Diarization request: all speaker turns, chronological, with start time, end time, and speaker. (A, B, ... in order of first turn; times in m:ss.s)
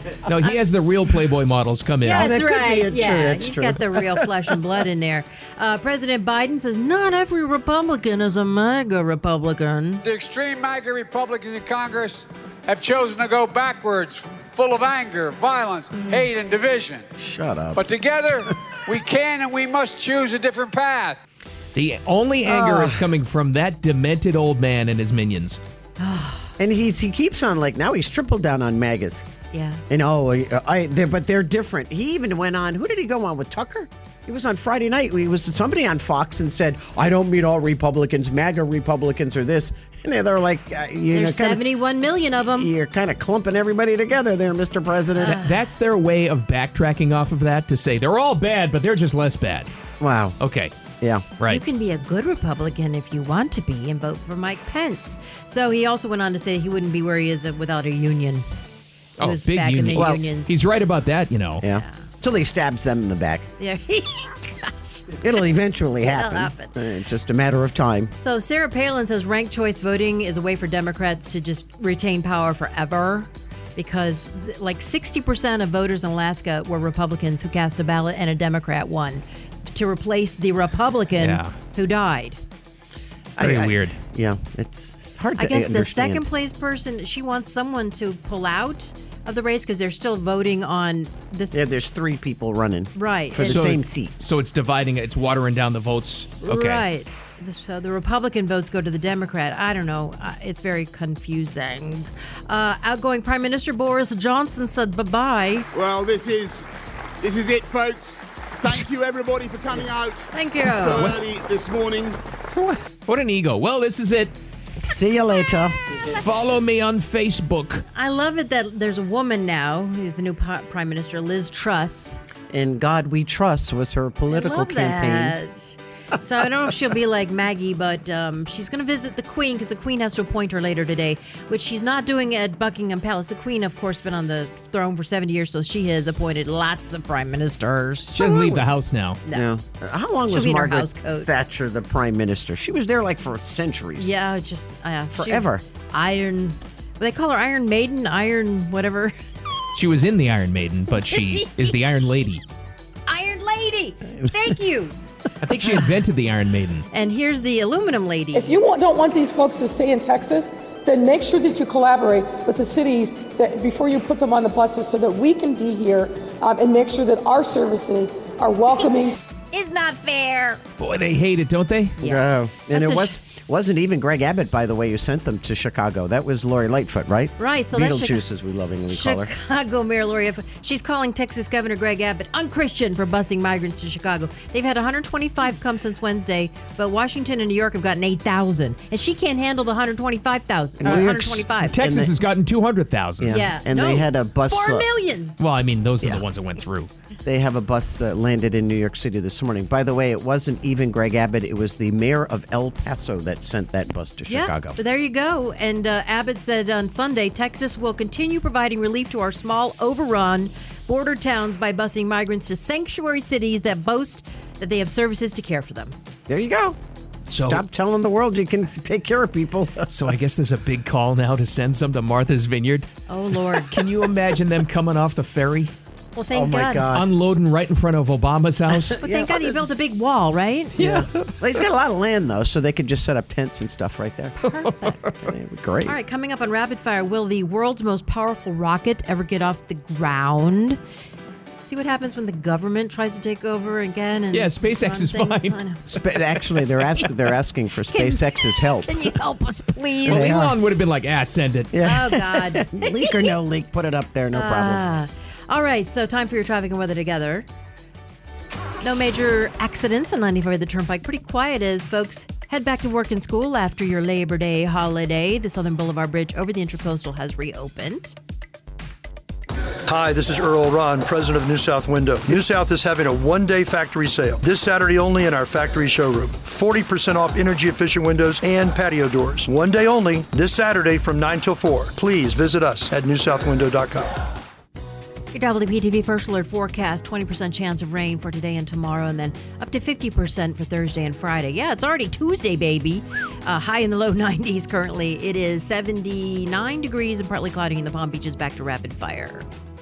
0:00.2-0:02.3 A
0:02.0-0:10.0 B
0:02.1-0:04.3 C
0:10.0-0:17.1 D
0:17.2-0:17.8 C
0:17.7-0:21.2 D
0:21.8-0:25.6 A
0:22.5-0:23.1 C
0:26.0-0:26.7 B
0:26.6-0:29.3 C
0:29.5-0:29.8 B
0:29.9-0:41.6 C
0:41.1-0:42.7 B
0:42.4-0:45.4 C
0:45.2-0:45.6 B
0:45.2-0:49.7 A
0:50.0-0:50.4 C
0:50.4-0:50.7 A
0:51.5-0:58.5 B
0:59.2-1:00.6 B
0:59.2-1:01.6 A
1:01.6-1:03.5 C
1:01.7-1:02.0 B
1:03.6-1:05.0 B
1:05.1-1:08.1 C
1:06.0-1:06.8 B
1:08.2-1:22.4 B
1:21.2-1:21.5 A
1:23.4-1:26.2 C
1:23.4-1:24.0 A
1:25.4-1:31.6 B
1:31.5-1:34.1 C
1:33.0-1:33.7 B
1:33.4-1:36.8 A
1:36.4-1:45.7 B
1:45.7-1:46.7 E
1:47.2-1:52.2 E
1:50.3-1:51.2 B
1:52.5-1:54.3 A
1:54.8-1:55.8 C
1:56.1-1:57.8 A
1:58.0-2:02.2 B
2:02.5-2:05.4 C
2:04.3-2:18.3 B
2:18.2-2:19.2 A
2:18.2-2:18.8 C
2:19.2-2:19.5 B
2:19.3-2:24.1 C
2:20.3-2:21.3 B
2:24.0-2:29.1 B
2:25.1-2:25.6 C
2:29.7-2:32.4 A
2:31.1-2:31.8 B
2:33.1-2:35.0 B
2:35.4-2:36.9 A
2:36.9-2:38.6 B
2:38.3-2:49.2 F
2:49.5-2:50.6 B
2:50.8-2:52.0 A
2:52.0-2:53.2 B
2:52.0-2:59.3 C
2:57.4-2:58.2 B
2:58.9-3:11.8 B
3:10.8-3:12.1 C
3:11.7-3:13.4 A
3:13.2-3:14.9 C
3:13.3-3:15.4 B
3:15.4-3:16.9 A
3:17.2-3:24.8 C
3:24.3-3:36.0 B
3:36.3-3:36.8 C
3:37.3-3:39.9 C
3:37.3-3:37.6 A
3:39.9-3:42.9 A
3:43.1-3:43.7 B
3:43.7-3:45.7 A
3:46.2-3:46.9 B
3:46.3-3:47.1 C
3:46.9-3:49.0 A
3:48.9-3:49.6 C
3:49.0-3:50.8 B
3:50.8-3:51.4 A
3:50.8-3:56.0 C
3:54.5-3:55.3 A
3:55.8-4:00.8 B
4:01.6-4:05.8 B
4:04.3-4:05.6 A
4:05.9-4:09.1 C
4:06.9-4:07.2 B
4:07.9-4:10.4 B
4:10.0-4:10.6 C
4:10.1-4:11.8 A
4:11.7-4:14.8 C
4:11.8-4:13.4 B
4:14.3-4:17.5 B
4:18.8-4:28.2 B
4:29.9-4:44.2 G
4:45.3-4:59.5 B